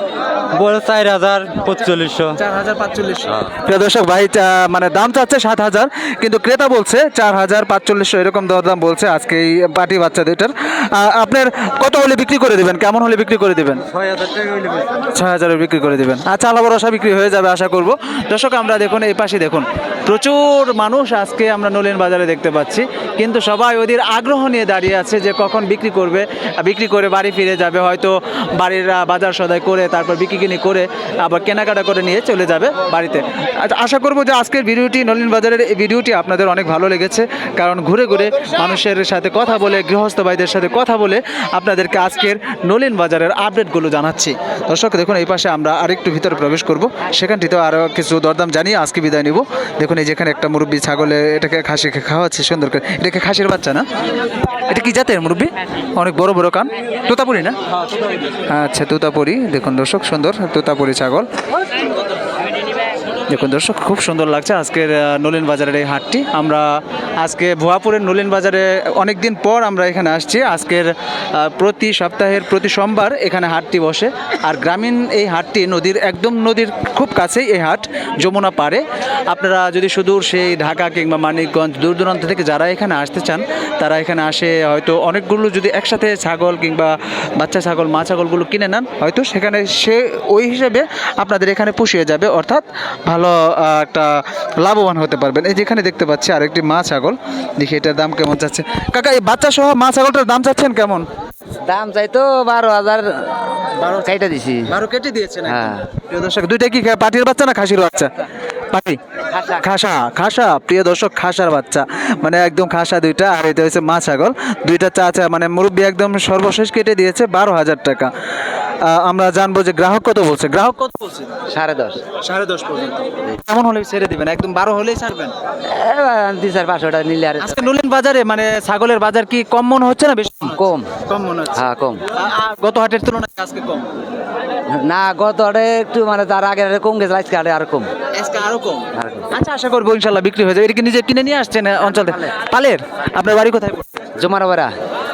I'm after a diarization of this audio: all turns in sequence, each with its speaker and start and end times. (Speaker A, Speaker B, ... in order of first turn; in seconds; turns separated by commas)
Speaker A: 0.5-2.4, Speaker B: 2.2-13.8, Speaker A: 14.1-14.8, Speaker B: 15.1-53.9, Speaker B: 54.6-57.6, Speaker B: 58.5-61.3, Speaker B: 63.3-101.1, Speaker C: 101.7-104.7, Speaker B: 103.8-104.1, Speaker B: 104.7-109.0, Speaker C: 105.5-105.8, Speaker C: 109.3-109.6, Speaker B: 109.6-118.1, Speaker B: 118.8-121.3, Speaker C: 121.5-122.0, Speaker B: 122.2-125.3, Speaker C: 125.7-127.7, Speaker B: 127.4-133.9, Speaker C: 130.5-130.9, Speaker C: 131.6-132.0, Speaker C: 134.7-137.9, Speaker B: 138.1-144.0, Speaker C: 139.0-139.3, Speaker C: 144.2-144.7